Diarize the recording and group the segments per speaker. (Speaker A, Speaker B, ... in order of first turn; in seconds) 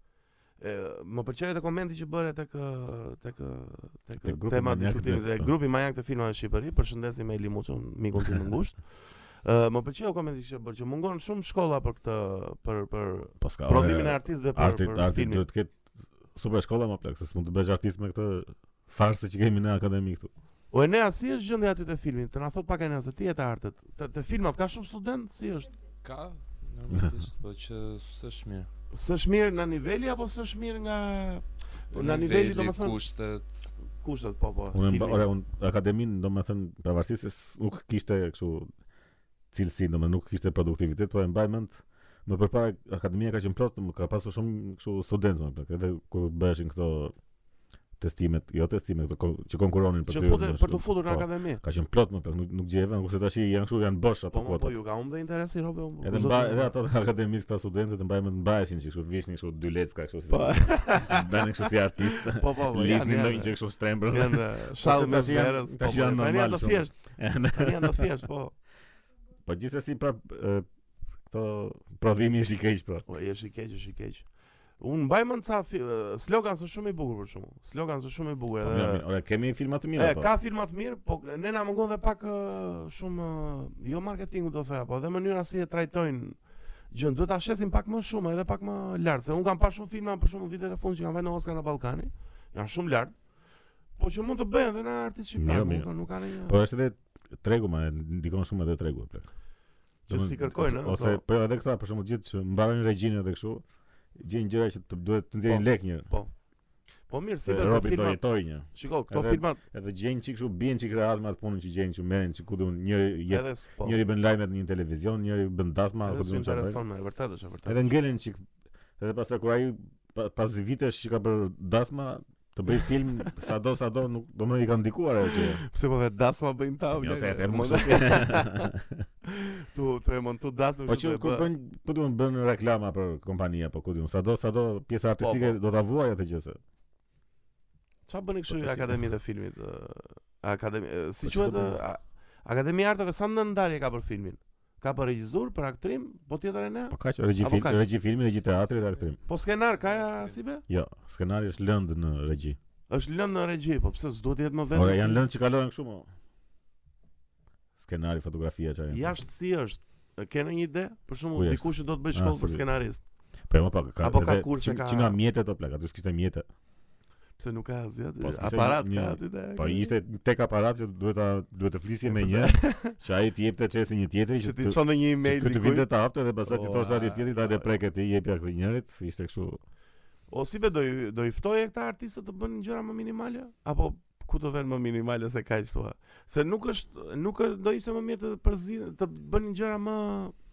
Speaker A: 0.6-15.4, 20.7-25.7, 28.9-33.0, 34.0-35.3, 50.1-51.6, 54.3-56.7, 60.3-68.5, 73.1-74.3, 74.8-79.0, 80.0-86.4, 86.9-93.1, 94.0-96.6, 100.1-101.2, 105.5-106.3, 107.1-109.6, 113.3-114.0, 116.0-118.0, 125.3-128.7, 129.3-131.5, 135.2-135.6, 138.1-147.8, 149.3-150.7, 152.9-155.2, 158.9-163.0, 164.0-165.2, 167.4-169.9, 172.1-173.0, 174.4-175.9, 176.4-177.7, 180.3-190.3
Speaker B: 4.2-5.5, 13.4-20.3, 26.9-27.2, 34.7-38.7, 39.5-47.1, 48.0-54.8, 56.0-68.0, 69.5-70.7, 71.3-73.0, 78.6-80.3, 95.4-95.9, 96.4-99.3, 100.1-103.6, 104.2-106.1, 107.5-116.8, 117.7-118.5, 119.0-125.6, 126.9-129.1, 130.9-136.6, 138.5-139.0, 141.2-141.8, 146.9-149.2, 150.7-152.6, 154.7-156.1, 157.8-159.2, 161.3-162.7, 163.5-166.5, 168.2-179.6
Speaker C: 26.0-28.7, 31.9-33.5